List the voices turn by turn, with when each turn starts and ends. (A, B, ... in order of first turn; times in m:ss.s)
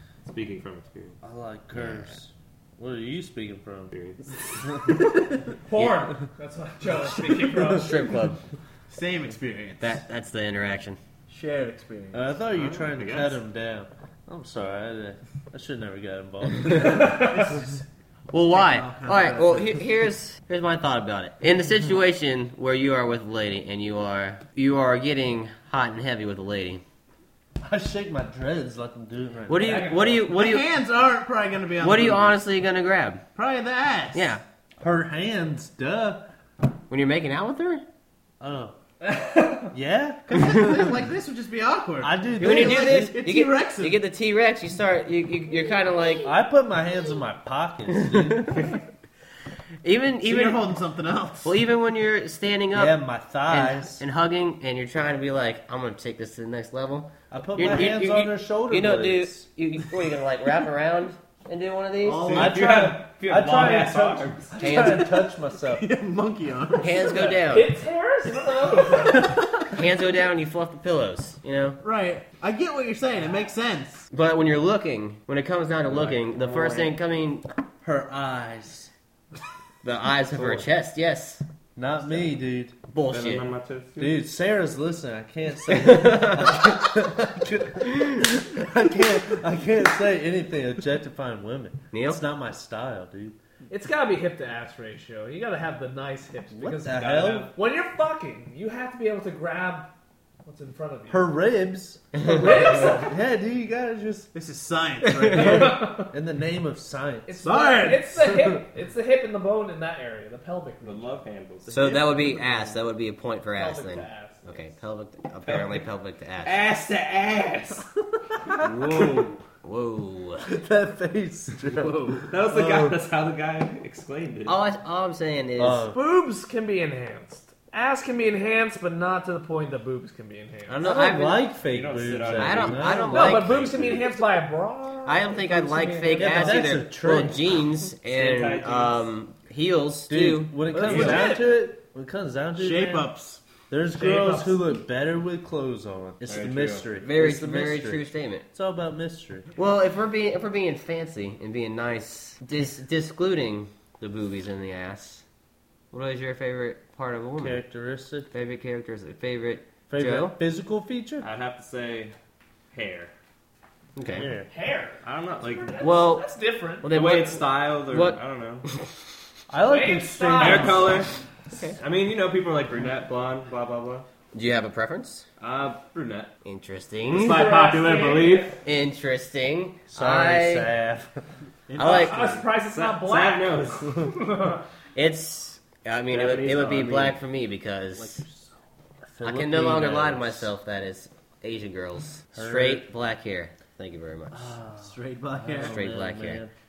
0:00.2-0:01.2 A
0:01.2-0:03.9 B
0:01.8-0:02.1 C
0:03.9-0:04.7 A
0:05.6-0:08.2 D
0:07.7-0:08.4 C
0:08.9-0:10.0 E
0:09.8-0:11.0 C
0:11.3-0:12.3 E
0:12.1-0:17.2 B
0:12.5-0:13.4 A
0:16.7-0:17.5 D
0:17.0-0:17.8 E
0:18.3-0:26.8 C
0:18.4-0:19.8 E
0:27.6-0:29.8 B
0:29.5-0:30.6 C
0:29.6-0:30.2 D
0:30.2-0:32.4 E
0:31.8-0:33.2 C
0:33.3-0:34.3 E
0:34.1-0:34.4 C
0:34.8-0:36.2 B
0:36.9-0:37.8 C
0:38.4-0:38.8 B
0:39.0-0:39.7 D
0:39.7-0:40.7 B
0:40.3-0:44.0 E
0:42.0-0:43.2 B
0:42.4-0:46.3 C
0:46.2-0:48.7 B
0:47.9-0:48.8 C
0:49.8-0:50.6 C
0:50.2-0:51.5 E
0:51.4-1:02.3 C
0:52.7-0:54.0 B
0:57.3-0:59.4 B
1:02.0-1:02.7 E
1:02.2-1:04.6 A
1:02.3-1:05.8 B
1:04.6-1:05.2 C
1:05.6-1:07.4 E
1:06.8-1:07.7 C
1:07.0-1:09.6 D
1:09.1-1:09.3 E
1:09.6-1:11.8 C
1:11.8-1:14.1 E
1:14.1-1:17.4 C
1:15.9-1:16.9 A
1:15.9-1:16.2 B
1:17.8-1:18.9 B
1:19.8-1:21.4 C
1:20.3-1:20.6 A
1:21.8-1:22.8 B
1:22.9-1:23.5 C
1:23.1-1:24.2 A
1:24.0-1:33.4 B
1:25.7-1:26.6 C
1:31.9-1:32.2 C
1:33.7-1:39.9 D
1:36.7-1:37.5 B
1:36.8-1:37.5 A
1:40.4-1:41.3 D
1:41.1-1:44.3 B
1:42.1-1:42.7 C
1:42.2-1:43.2 D
1:44.3-1:46.1 E
1:45.3-1:47.3 B
1:45.4-1:46.1 D
1:47.3-1:51.2 D
1:47.4-1:48.3 E
1:50.8-1:51.9 A
1:51.7-1:52.7 E
1:51.7-1:56.6 C
1:53.5-1:54.6 D
1:55.4-1:55.8 A
1:56.4-1:57.8 A
1:58.5-1:59.4 A
1:59.6-2:00.5 C
2:00.4-2:03.0 B
2:01.7-2:02.3 E
2:02.3-2:04.6 A
2:04.4-2:05.8 C
2:05.6-2:06.0 B
2:05.9-2:10.9 D
2:10.7-2:11.4 C
2:10.8-2:13.3 B
2:11.6-2:13.4 A
2:12.3-2:14.1 C
2:13.1-2:16.8 D
2:15.0-2:20.6 C
2:16.2-2:17.4 B
2:18.1-2:19.1 A
2:20.1-2:23.1 B
2:20.7-2:21.4 D
2:20.7-2:21.3 E
2:20.9-2:21.3 A
2:22.6-2:23.4 E
2:23.7-2:29.5 B
2:23.9-2:24.6 D
2:26.2-2:26.9 A
2:27.0-2:28.4 C
2:29.5-2:35.2 C
2:35.9-2:37.6 C
2:37.4-2:38.3 B
2:38.3-2:40.4 C
2:39.9-2:41.3 B
2:41.2-2:42.1 A
2:42.7-2:43.1 A
2:44.0-2:44.3 C
2:44.0-2:44.5 B
2:44.5-2:46.9 D
2:45.0-2:45.8 A
2:45.8-2:46.3 C
2:46.8-2:48.8 C
2:46.9-2:48.7 A
2:49.5-2:51.0 B
2:49.6-2:51.0 D
2:50.4-2:51.1 A
2:51.8-2:54.0 A
2:54.3-2:55.2 C
2:55.4-2:56.3 A
2:56.4-2:57.5 C
2:57.0-2:58.6 A
2:57.1-2:58.6 D
2:58.6-3:00.7 C
2:59.9-3:01.2 B
3:01.7-3:02.4 E
3:01.8-3:02.2 C
3:01.9-3:04.6 D
3:02.2-3:04.2 A
3:04.9-3:08.2 C
3:06.1-3:07.2 A
3:08.0-3:08.4 B
3:09.0-3:10.5 B
3:09.2-3:14.6 C
3:12.3-3:12.9 B
3:14.3-3:16.5 B
3:14.8-3:15.8 E
3:15.6-3:16.4 C